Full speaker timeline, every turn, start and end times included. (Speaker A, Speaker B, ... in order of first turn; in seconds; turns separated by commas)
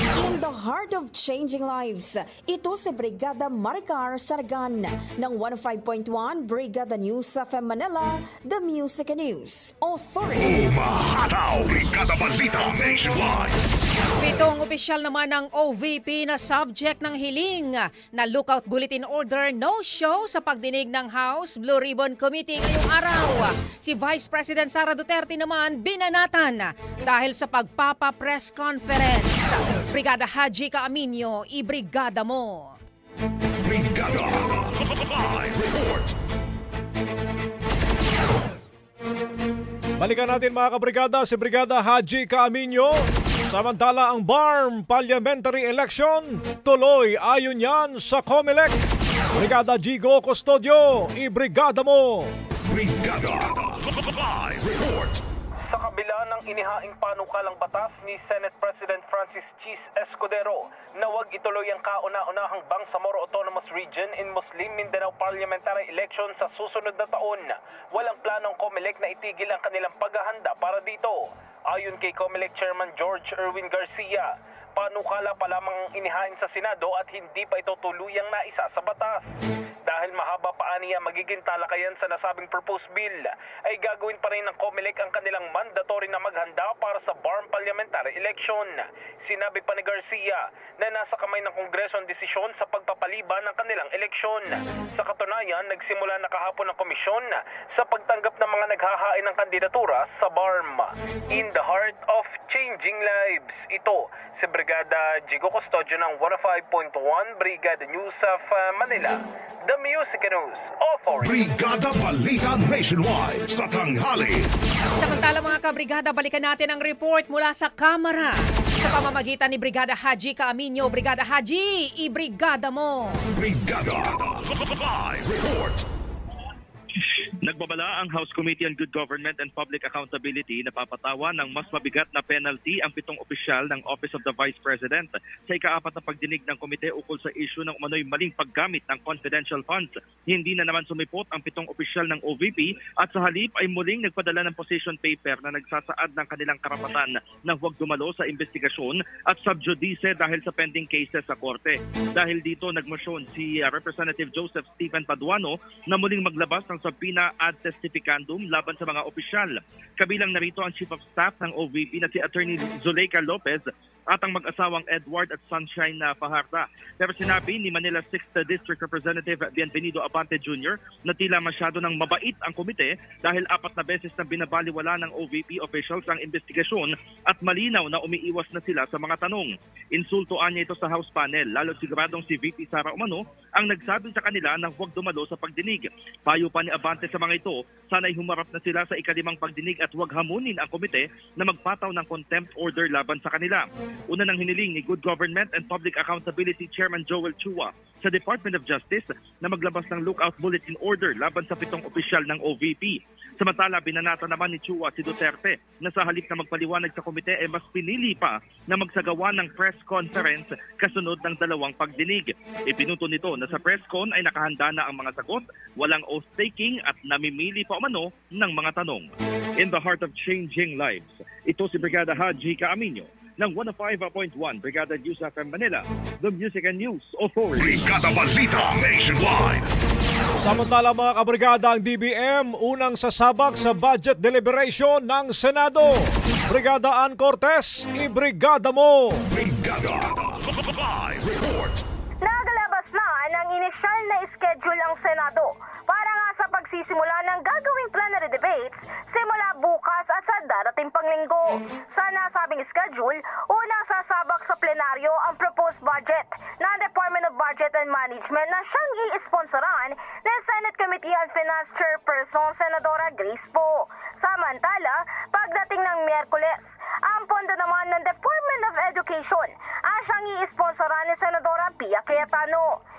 Speaker A: 0.2-10.6, Speaker B: 10.4-13.6, Speaker C: 14.2-32.8, Speaker B: 33.6-36.1, Speaker D: 40.0-43.0, Speaker D: 43.5-48.8, Speaker D: 49.3-52.3, Speaker B: 52.7-55.2, Speaker E: 55.7-79.3, Speaker E: 79.9-111.4, Speaker B: 111.2-114.5, Speaker C: 115.0-123.2, Speaker B: 123.3-125.8, Speaker F: 127.4-227.9, Speaker B: 227.6-229.7, Speaker D: 230.4-239.2, Speaker B: 239.3-241.8, Speaker G: 242.2-272.6